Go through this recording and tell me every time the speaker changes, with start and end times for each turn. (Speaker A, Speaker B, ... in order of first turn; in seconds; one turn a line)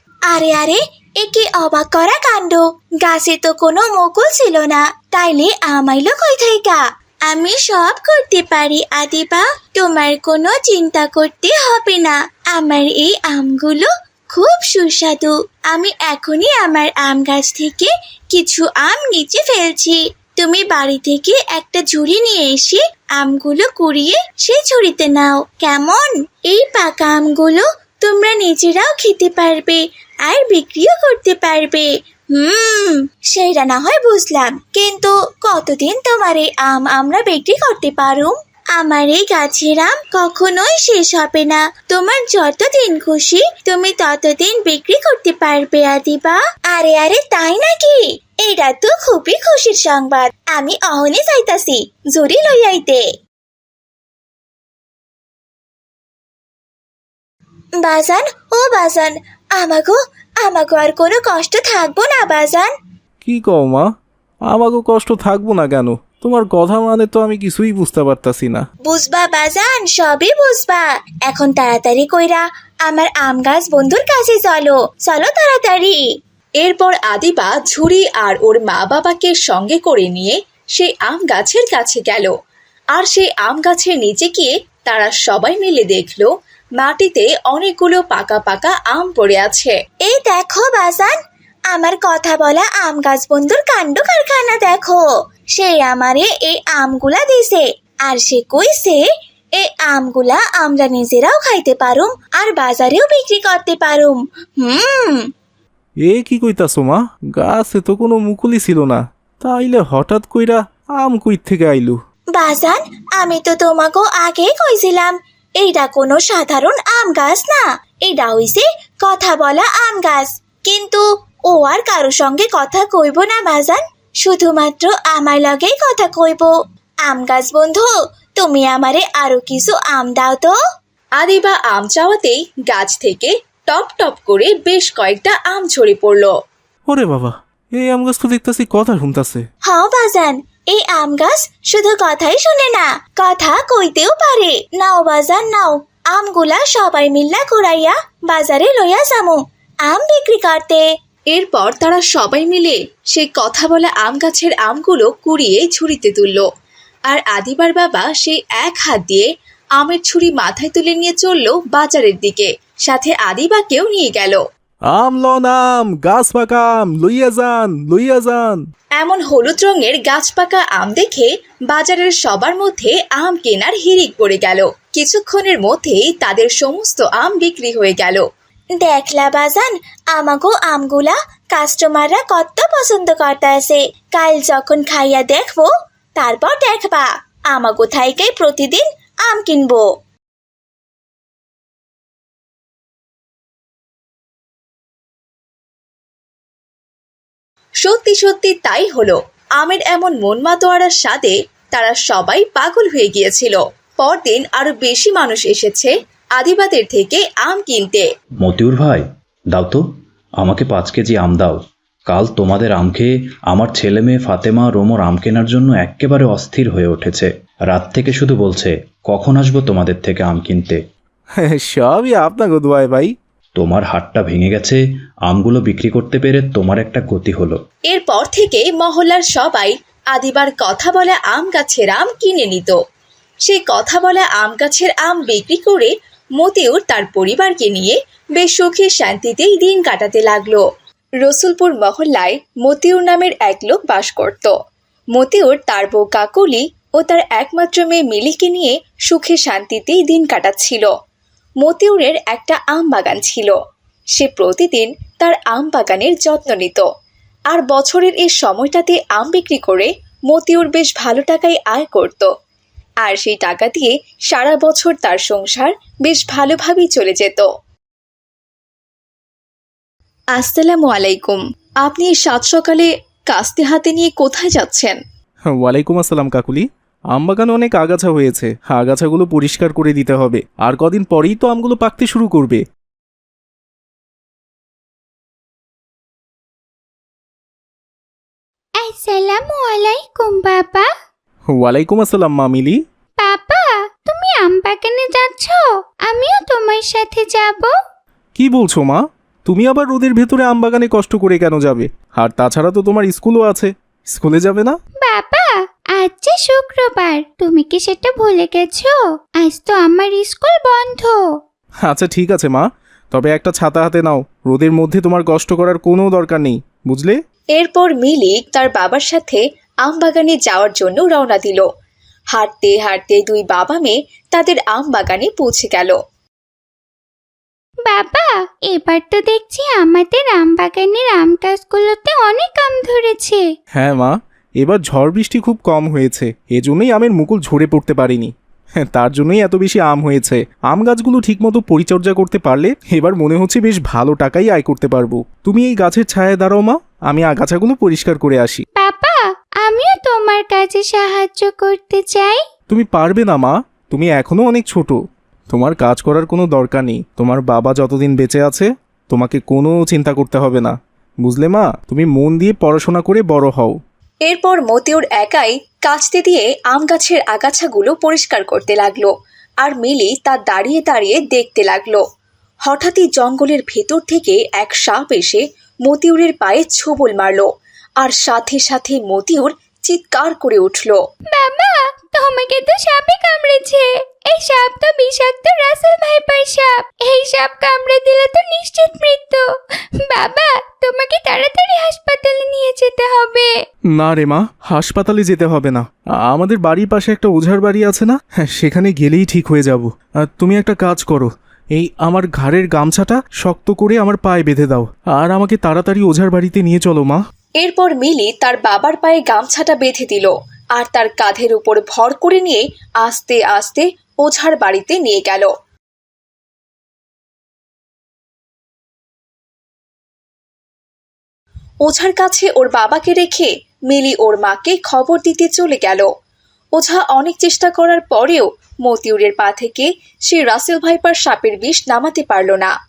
Speaker A: 0.3-53.0
Speaker A: 57.8-62.7
Speaker B: 63.2-63.9
Speaker B: 64.5-68.6
Speaker A: 68.9-76.0
Speaker C: 76.6-82.3
Speaker C: 82.9-89.7
Speaker A: 90.0-91.2
Speaker A: 91.7-95.0
Speaker A: 95.5-99.0
Speaker A: 99.5-105.3
Speaker B: 106.0-112.0
Speaker A: 112.3-126.5
Speaker A: 127.0-130.5
Speaker C: 131.2-136.3
Speaker B: 136.9-139.4
Speaker A: 139.7-150.8
Speaker C: 151.3-156.5
Speaker C: 157.1-164.4
Speaker B: 164.9-168.6
Speaker C: 169.0-178.2
Speaker A: 178.8-189.9
Speaker C: 197.8-208.1
Speaker D: 208.4-220.8
Speaker B: 221.4-223.1
Speaker D: 223.6-227.6
Speaker C: 227.9-232.8
Speaker C: 233.4-240.6
Speaker C: 241.2-244.5
Speaker C: 245.1-250.9
Speaker C: 251.6-253.6
Speaker C: 254.2-256.9
Speaker C: 257.5-262.3
Speaker C: 263.0-267.5
Speaker C: 270.3-275.0
Speaker B: 275.5-282.6
Speaker E: 288.8-290.9
Speaker B: 291.5-292.8
Speaker E: 293.2-297.7
Speaker B: 298.4-304.8
Speaker E: 305.0-311.2
Speaker B: 311.9-317.2
Speaker C: 317.6-321.6
Speaker C: 322.3-325.9
Speaker E: 327.9-333.4
Speaker B: 333.8-348.6
Speaker E: 348.8-352.4
Speaker B: 352.7-355.0
Speaker B: 355.5-363.8
Speaker C: 364.3-369.1
Speaker C: 369.6-372.0
Speaker C: 372.6-377.5
Speaker C: 378.0-381.0
Speaker E: 381.3-389.4
Speaker E: 390.0-393.5
Speaker B: 393.9-407.2
Speaker C: 407.6-415.5
Speaker C: 421.8-426.1
Speaker C: 426.8-432.7